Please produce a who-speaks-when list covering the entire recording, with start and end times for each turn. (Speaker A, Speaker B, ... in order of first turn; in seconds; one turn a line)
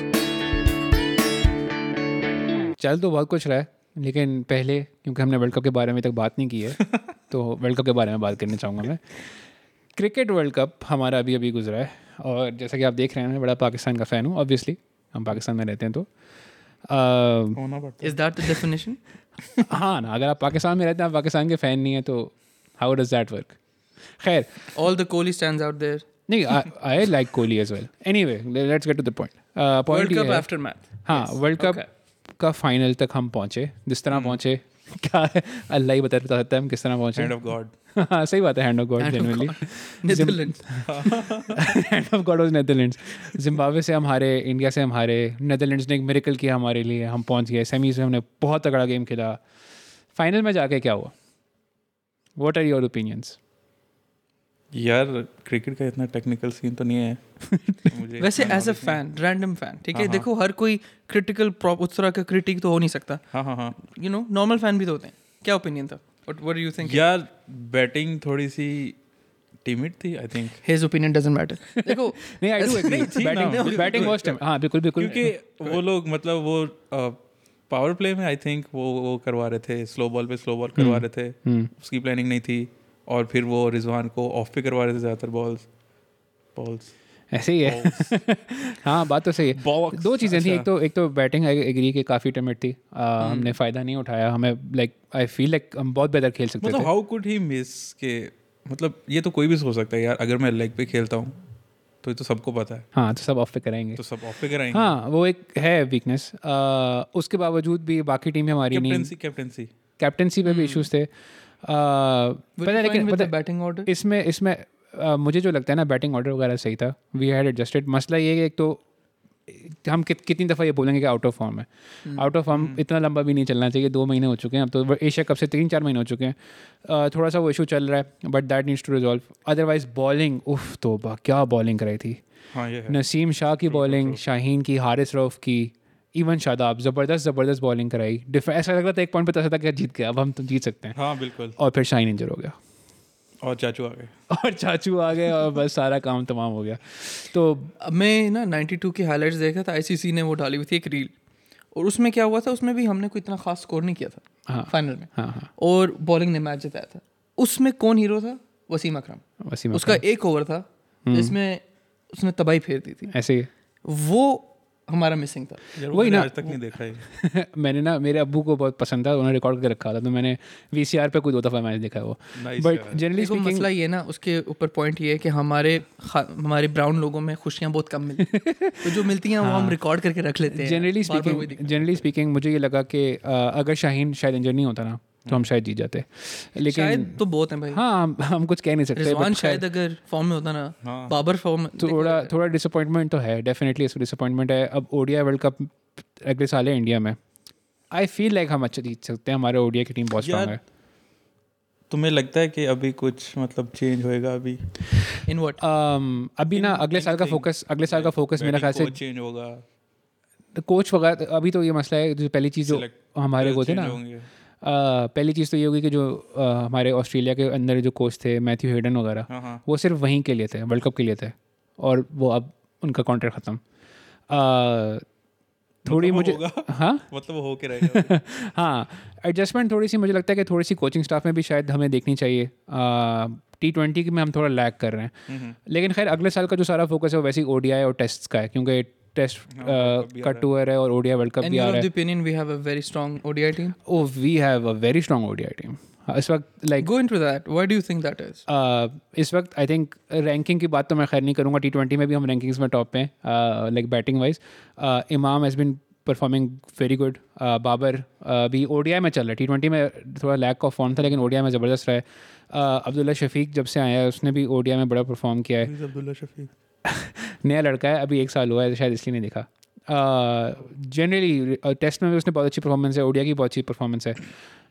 Speaker A: 2.8-9.2
Speaker A: 9.9-16.1
Speaker A: 16.9-17.6
Speaker B: 17.6-18.2
Speaker C: 18.0-19.0
Speaker A: 19.6-23.6
Speaker A: 24.2-24.6
Speaker C: 24.7-26.1
Speaker A: 26.3-30.4
Speaker C: 29.9-31.9
Speaker A: 31.1-31.8
Speaker A: 32.4-49.4
Speaker B: 34.1-34.4
Speaker B: 37.2-37.7
Speaker C: 39.0-40.6
Speaker B: 40.8-41.8
Speaker A: 50.1-51.1
Speaker A: 52.4-53.4
Speaker B: 54.7-57.2
Speaker A: 57.5-57.9
Speaker B: 57.8-59.0
Speaker C: 58.2-63.2
Speaker B: 59.9-60.3
Speaker B: 63.3-63.8
Speaker C: 63.8-67.0
Speaker B: 66.8-69.0
Speaker B: 69.7-70.6
Speaker C: 70.6-74.4
Speaker A: 71.8-75.3
Speaker B: 72.9-74.4
Speaker B: 75.0-77.2
Speaker B: 77.7-85.7
Speaker A: 80.8-81.7
Speaker B: 86.5-86.9
Speaker A: 87.3-96.9
Speaker B: 87.6-88.2
Speaker B: 89.5-90.7
Speaker C: 93.2-93.5
Speaker B: 96.6-101.4
Speaker B: 102.0-102.9
Speaker A: 103.0-104.0
Speaker B: 104.0-104.9
Speaker A: 104.7-109.1
Speaker B: 108.7-109.7
Speaker A: 110.0-111.1
Speaker C: 110.5-110.9
Speaker A: 111.6-113.3
Speaker C: 112.6-113.9
Speaker A: 113.8-118.8
Speaker A: 119.5-132.2
Speaker B: 122.5-122.8
Speaker B: 132.5-133.0
Speaker A: 132.9-141.0
Speaker B: 133.6-134.2
Speaker B: 140.9-141.6
Speaker A: 141.6-142.6
Speaker B: 143.4-144.1
Speaker A: 144.3-147.7
Speaker C: 147.8-151.1
Speaker C: 151.7-163.1
Speaker A: 154.5-155.5
Speaker A: 159.4-160.0
Speaker A: 161.1-161.3
Speaker A: 163.1-163.5
Speaker C: 163.8-165.7
Speaker B: 165.8-167.0
Speaker A: 165.9-173.7
Speaker B: 172.4-173.0
Speaker C: 173.1-182.0
Speaker A: 178.2-179.8
Speaker A: 180.5-187.2
Speaker C: 186.6-187.8
Speaker A: 187.7-189.6
Speaker C: 189.0-192.3
Speaker B: 190.8-191.1
Speaker A: 191.8-197.2
Speaker A: 197.9-200.6
Speaker B: 200.2-200.6
Speaker B: 201.9-204.7
Speaker C: 205.2-205.6
Speaker A: 205.6-209.0
Speaker B: 206.5-209.6
Speaker A: 210.6-214.0
Speaker B: 212.7-214.3
Speaker A: 214.6-223.6
Speaker B: 219.3-219.6
Speaker A: 224.3-225.1
Speaker A: 225.8-227.1
Speaker B: 225.8-228.2
Speaker A: 227.8-235.1
Speaker B: 235.3-235.6
Speaker A: 235.7-241.9
Speaker B: 239.5-240.5
Speaker C: 241.4-243.8
Speaker A: 243.8-246.9
Speaker C: 246.8-248.4
Speaker A: 248.5-265.7
Speaker B: 265.6-266.5
Speaker A: 266.8-274.3